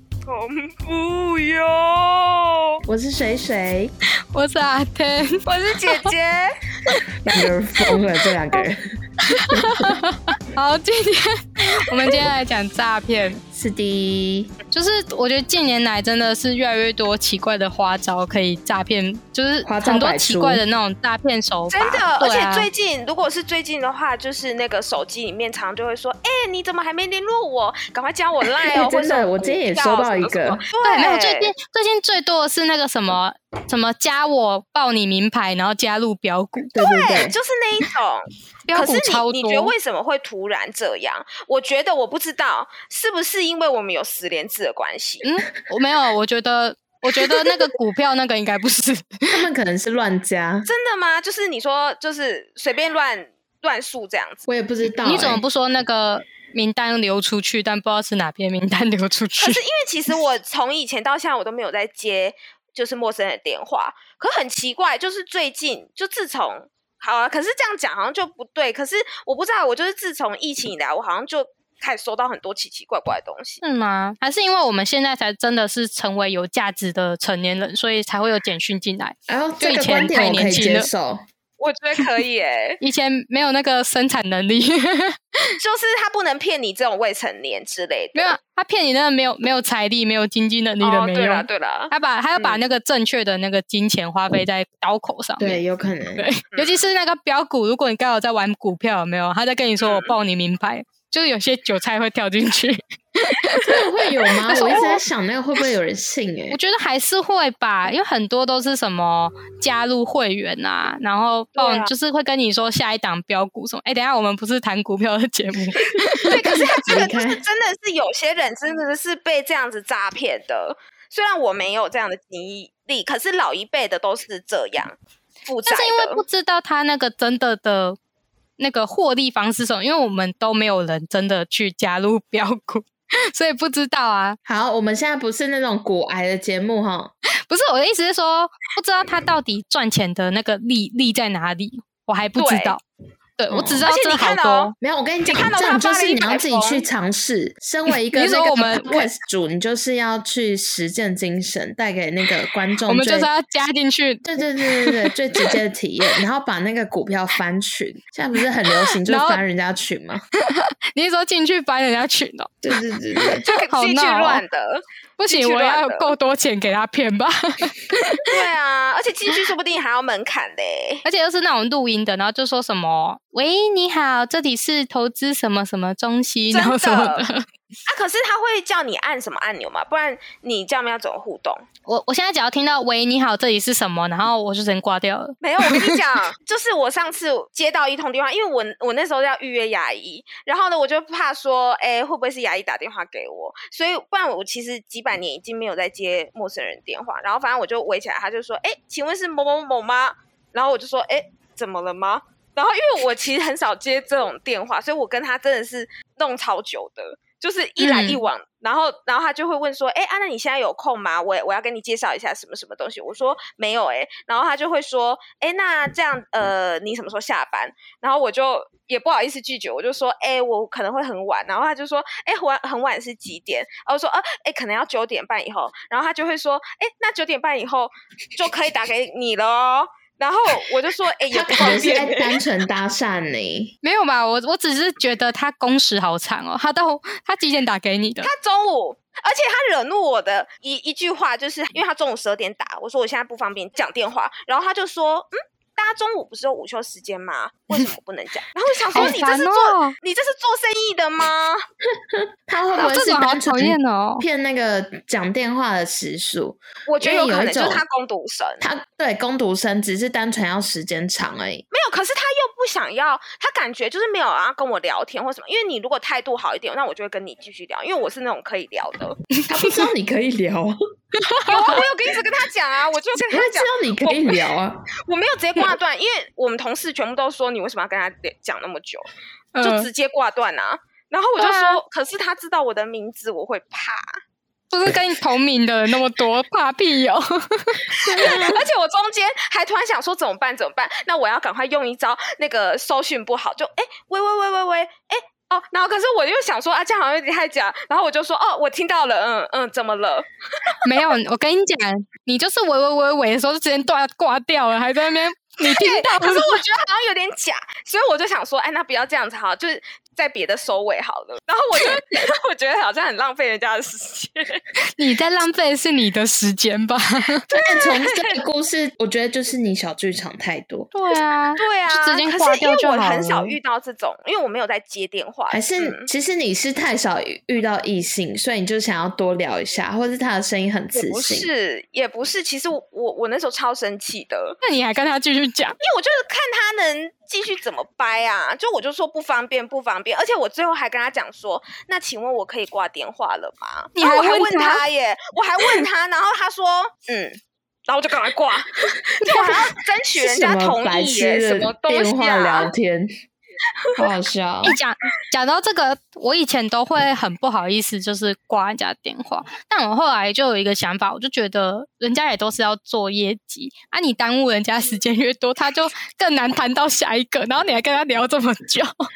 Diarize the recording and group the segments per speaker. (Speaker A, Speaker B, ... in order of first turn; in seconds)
Speaker A: 0.3-2.8, 5.5-6.7, 11.8-12.2, 21.7-31.5, 36.8-45.3, 50.7-54.5, 59.4-73.6, 81.6-82.8, 85.6-88.4, 90.8-92.6, 96.5-96.9, 99.8-100.2, 111.6-111.9, 116.2-126.2, 142.4-142.8, 143.8-144.7, 145.3-146.9, 163.4-166.1, 168.3-171.1, 176.5-177.2, 177.9-181.7, 185.4-232.4, 238.2-251.6, 256.9-258.6, 261.7-269.2, 271.5-274.5, 275.1-279.1, 279.6-284.2, 288.1-300.9, 305.6-314.6, 317.5-318.3, 321.6-326.1, 330.9-334.6, 335.8-352.7
Speaker B: 2.9-3.9, 7.2-8.8, 9.5-9.9, 13.5-14.5, 19.6-20.6, 28.7-30.6, 36.7-37.4, 49.3-50.7, 54.5-55.4, 79.3-81.2, 95.4-96.3, 103.6-106.6, 116.2-117.4, 134.5-137.1, 143.5-143.8, 144.8-153.3, 154.2-160.2, 162.6-163.4, 231.3-233.7, 252.1-257.8, 258.6-261.7, 269.5-270.8, 273.3-274.9, 288.0-288.6, 317.5-320.9, 325.5-331.5, 350.2-353.1, 354.0-354.8
Speaker C: 4.3-6.1, 9.2-13.4, 14.7-22.7, 30.9-36.7, 38.7-39.7, 45.2-49.4, 55.0-59.6, 73.6-80.9, 82.8-85.5, 88.2-95.6, 96.2-105.0, 106.5-116.4, 125.7-128.0, 128.6-134.4, 137.5-142.8, 143.4-144.8, 148.1-149.1, 152.9-154.3, 154.8-155.1, 159.0-159.4, 160.5-162.6, 163.3-164.4, 165.2-168.3, 171.1-177.4, 181.9-186.0, 207.8-208.3, 233.8-238.3, 248.9-249.9, 252.8-254.2, 269.4-269.9, 271.1-271.8, 279.6-279.9, 281.4-281.8, 284.7-287.9, 300.8-306.6, 315.0-317.4, 320.9-323.6, 334.6-335.8, 344.0-344.8, 354.6-368.9